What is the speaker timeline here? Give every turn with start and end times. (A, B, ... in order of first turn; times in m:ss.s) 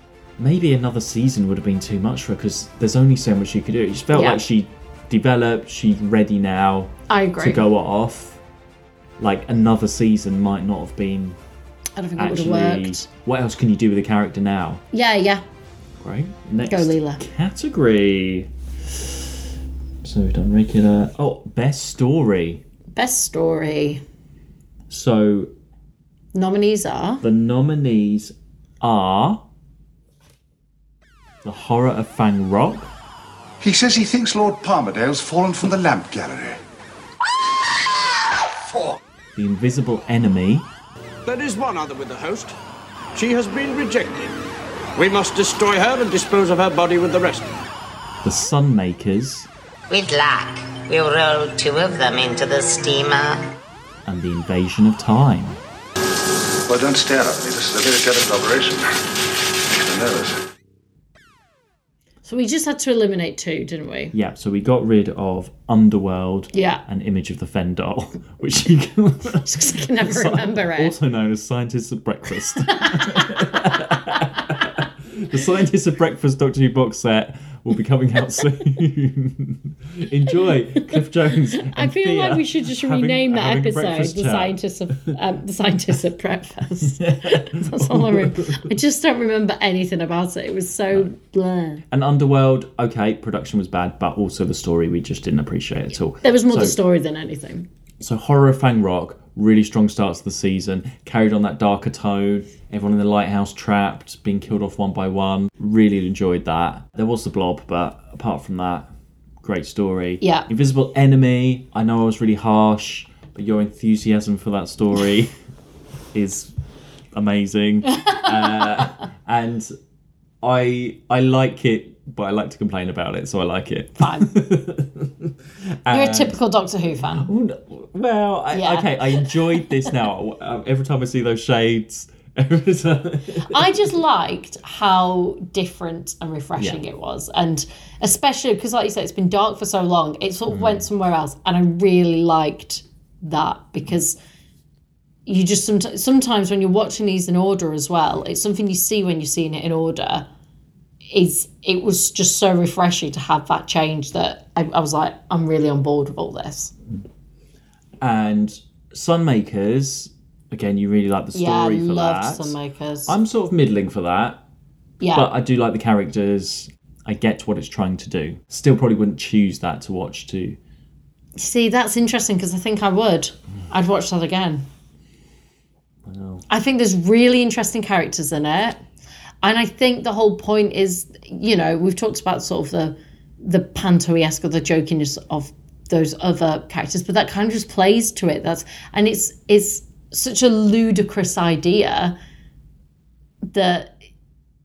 0:00.4-0:08.4 A
0:04.1-0:04.4 B
0:07.1-0:07.6 B
0:09.2-0:11.4 A
0:12.0-0:13.1 B
0:12.2-0:14.8 A
0:14.9-0:15.4 B
0:16.0-0:19.2 A
0:16.7-0:17.2 B
0:20.0-0:22.6 A
0:22.9-0:24.0 B
0:24.9-0:25.5 A
0:26.3-0:27.2 B
0:27.2-0:29.4 A
0:31.4-0:32.9 A
0:33.6-0:36.6 C
0:39.4-0:40.7 A
0:41.2-0:42.5 D
0:43.1-0:44.4 D
0:44.9-0:47.6 D
0:48.2-0:49.5 A
0:49.9-0:53.5 E
0:54.0-0:55.6 A
0:56.7-0:58.8 C
0:59.6-1:00.4 C
1:02.2-1:04.1 B
1:04.1-1:24.6 A
1:06.5-1:06.8 B
1:09.4-1:10.9 B
1:12.7-1:13.6 B
1:20.4-1:21.0 B
1:21.6-1:31.8 B
1:27.0-1:28.7 A
1:31.9-1:36.8 A
1:36.2-1:37.7 B
1:38.0-1:48.9 A
1:49.4-1:55.3 A
1:50.2-1:50.5 B
1:56.1-1:56.5 A
1:57.1-1:59.7 A
1:57.9-1:58.2 B
2:00.4-2:05.3 A
2:04.0-2:04.3 B
2:05.8-2:06.4 A
2:05.9-2:07.3 B
2:07.0-2:13.8 A
2:08.5-2:09.6 B
2:13.5-2:24.2 B
2:20.5-2:20.8 A
2:25.2-2:30.3 B
2:31.1-2:36.7 B
2:38.0-2:44.4 A
2:41.3-2:43.1 B
2:45.0-2:45.3 B
2:45.1-2:50.6 A
2:51.4-2:54.6 B
2:56.0-2:56.4 A
2:56.5-2:58.8 B
2:59.4-3:12.2 B
3:13.5-3:14.0 B